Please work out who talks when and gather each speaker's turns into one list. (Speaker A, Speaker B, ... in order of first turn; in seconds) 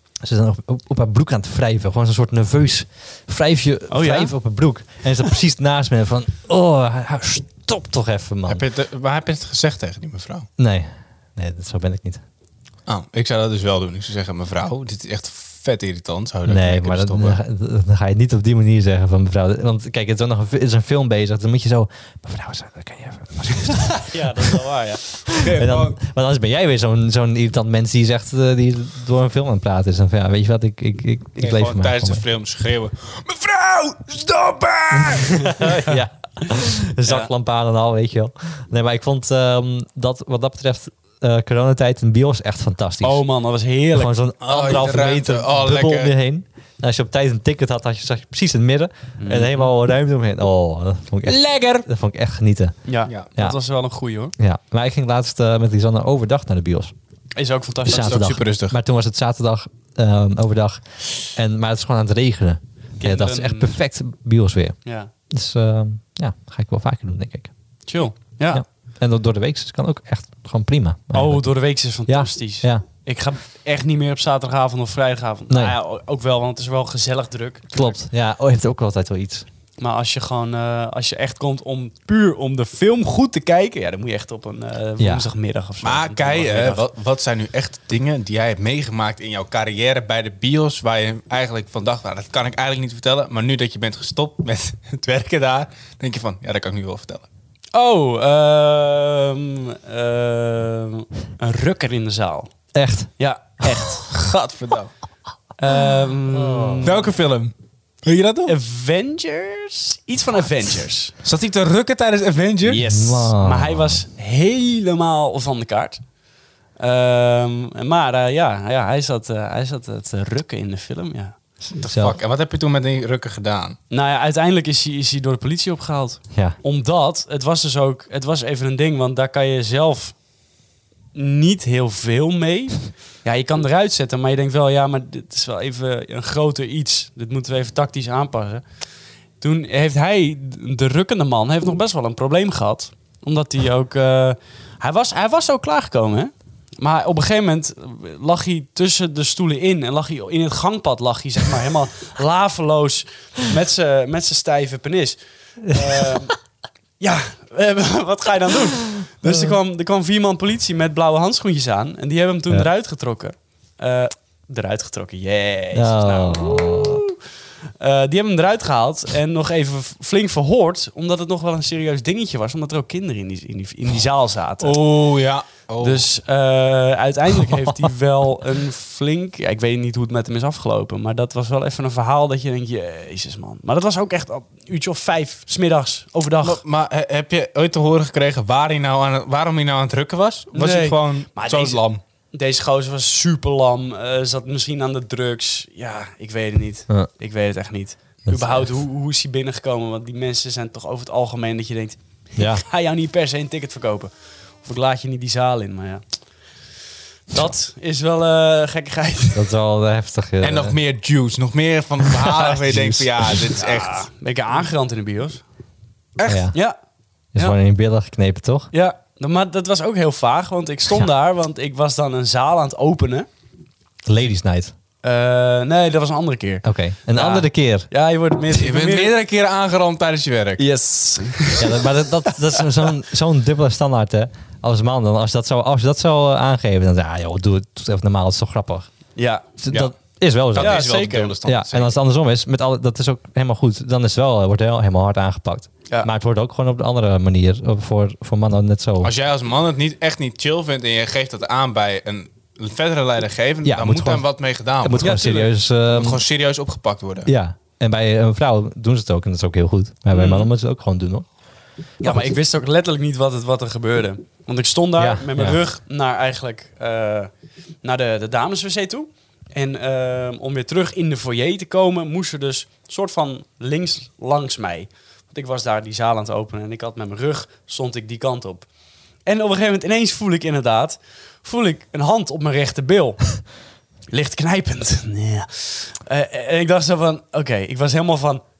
Speaker A: 0.2-8.6, 10.6-12.2, 16.4-24.3, 25.4-32.2, 34.9-43.2, 43.9-52.8, 54.4-56.9, 57.9-64.8, 65.3-67.5, 68.5-72.8, 75.5-75.8, 77.7-79.5, 85.0-85.3, 102.7-103.1, 106.3-106.9, 112.8-114.0, 121.9-122.2, 126.3-126.6, 155.7-156.2, 159.2-159.6, 165.7-167.0, 198.2-198.7, 202.3-202.6, 209.3-210.8, 216.2-216.5, 217.3-218.7, 224.0-224.7, 226.6-227.9, 231.6-238.9, 239.6-240.9, 241.4-249.1, 253.6-254.2, 254.8-256.2, 257.2-261.3, 262.0-262.3, 265.0-265.6
Speaker B: 3.9-4.3, 23.9-25.2, 43.0-44.1, 49.2-49.7, 52.9-54.3, 57.4-58.3, 63.0-63.8, 64.8-65.1, 67.8-68.6, 71.1-78.0, 79.8-86.8, 97.7-102.5, 103.2-104.0, 105.6-107.1, 108.5-111.1, 112.6-116.0, 116.8-121.4, 123.9-130.2, 131.1-138.6, 139.4-156.3, 157.0-167.1, 167.8-174.8, 175.8-186.6, 190.5-206.0, 207.3-209.5, 213.2-215.4, 216.5-216.8, 218.7-223.3, 225.0-229.1, 230.6-232.0, 239.2-239.5, 240.6-241.3, 255.0-255.5, 260.1-260.5, 262.0-267.3, 267.8-278.7, 279.2-283.5, 284.1-288.4
Speaker C: 8.5-10.5, 12.8-17.4, 25.3-26.0, 31.4-35.6, 44.4-46.1, 51.2-51.8, 57.9-58.8, 85.8-97.2, 104.0-104.9, 106.8-108.5, 111.2-112.8, 121.8-123.8, 174.6-176.1, 186.4-192.0, 210.4-214.0, 216.2-216.5, 228.5-230.6, 239.7-239.9, 240.5-241.9, 249.0-255.3, 255.9-257.3